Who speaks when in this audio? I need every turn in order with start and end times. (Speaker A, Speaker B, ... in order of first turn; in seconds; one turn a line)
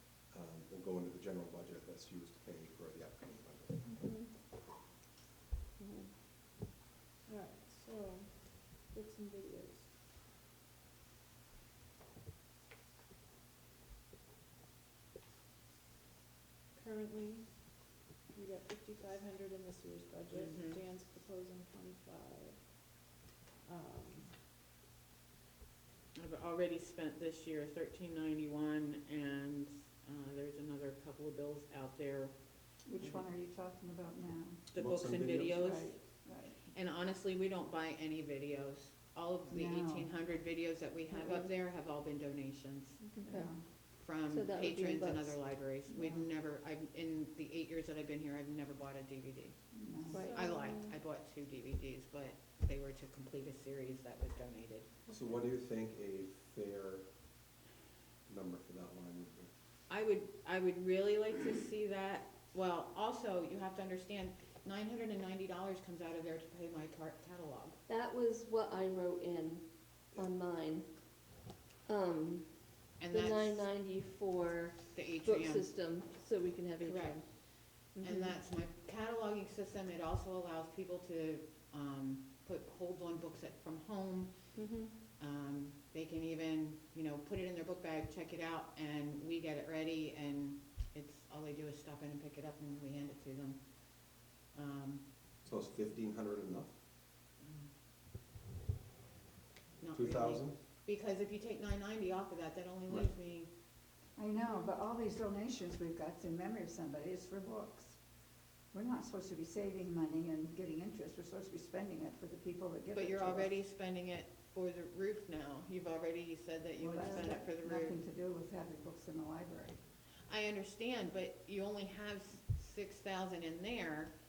Speaker A: 0.3-3.8
Speaker B: 4.0-4.3
Speaker B: 5.8-6.1
Speaker C: 7.2-9.9
Speaker C: 16.7-23.0
Speaker D: 20.3-20.8
Speaker C: 23.6-24.3
Speaker D: 26.1-32.3
Speaker E: 32.8-34.6
Speaker D: 33.0-33.2
Speaker D: 34.7-36.0
Speaker A: 34.8-35.6
Speaker E: 35.6-36.6
Speaker D: 36.7-43.0
Speaker E: 39.5-40.1
Speaker B: 41.1-41.5
Speaker B: 43.0-43.5
Speaker E: 43.3-43.6
Speaker D: 44.0-49.5
Speaker B: 44.2-45.7
Speaker E: 45.9-46.2
Speaker E: 49.7-50.3
Speaker B: 50.1-51.0
Speaker C: 50.1-50.6
Speaker D: 50.3-54.9
Speaker A: 55.1-57.0
Speaker A: 58.3-59.5
Speaker D: 59.9-67.8
Speaker B: 67.9-71.3
Speaker B: 71.8-77.3
Speaker D: 73.0-73.7
Speaker D: 74.9-75.7
Speaker D: 76.8-84.5
Speaker B: 77.9-78.3
Speaker B: 84.5-85.0
Speaker D: 85.2-93.6
Speaker D: 94.2-95.1
Speaker A: 95.4-96.7
Speaker D: 97.4-97.7
Speaker D: 99.8-103.5
Speaker A: 99.9-100.5
Speaker E: 104.2-108.0
Speaker E: 108.7-113.5
Speaker D: 112.9-118.0
Speaker E: 116.8-119.8
Speaker D: 120.3-124.1